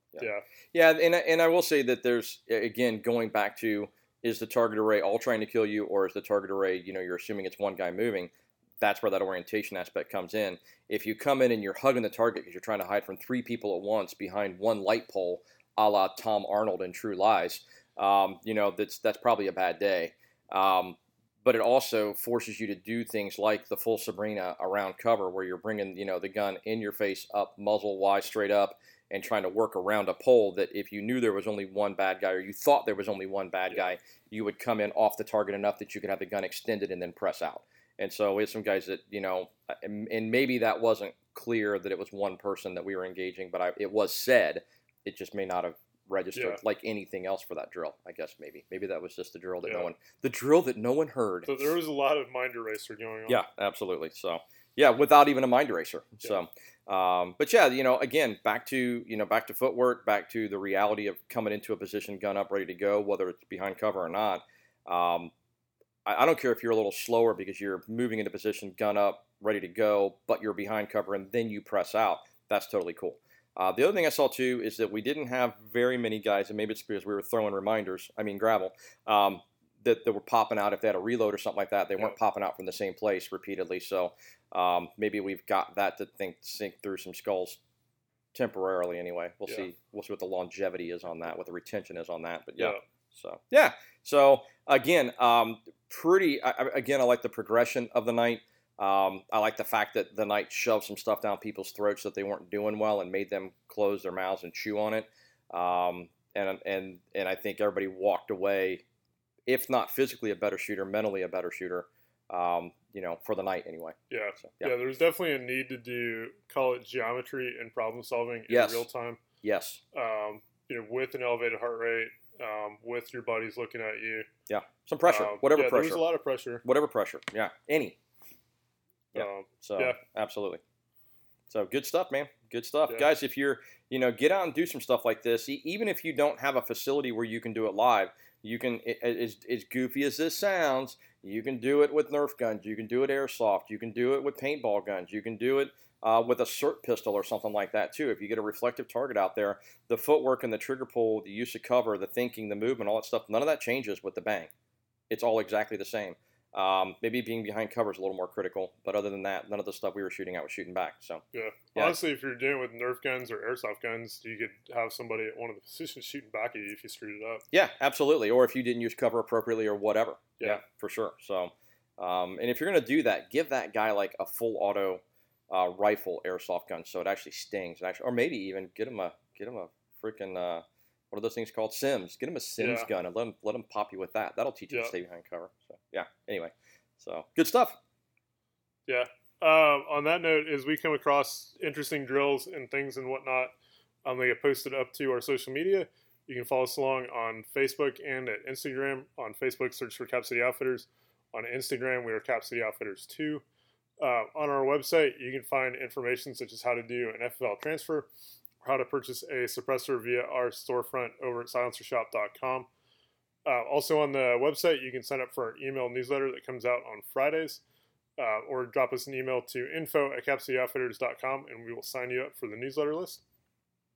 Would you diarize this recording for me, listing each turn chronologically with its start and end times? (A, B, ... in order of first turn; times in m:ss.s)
0:00.1-0:51.5 A
0:00.2-0:00.4 B
0:46.3-0:46.6 B
0:49.6-0:49.9 B
0:51.4-0:53.4 B
0:53.3-1:05.3 A
1:06.0-1:27.6 A
1:28.3-1:48.8 A
1:49.5-1:54.7 A
1:54.1-1:59.2 B
1:58.5-1:58.8 A
1:59.4-1:59.8 A
1:59.9-2:04.3 B
2:04.5-2:06.0 A
2:05.1-2:06.6 B
2:06.6-2:08.0 A
2:09.1-2:10.6 A
2:09.1-2:10.0 B
2:11.5-2:34.5 A
2:35.1-2:41.2 A
2:41.3-2:47.4 B
2:47.5-3:07.8 A
3:02.6-3:02.9 B
3:08.9-3:23.4 B
3:24.0-3:28.1 B
3:28.6-3:32.7 B
3:33.4-3:37.6 B
3:38.2-3:43.2 B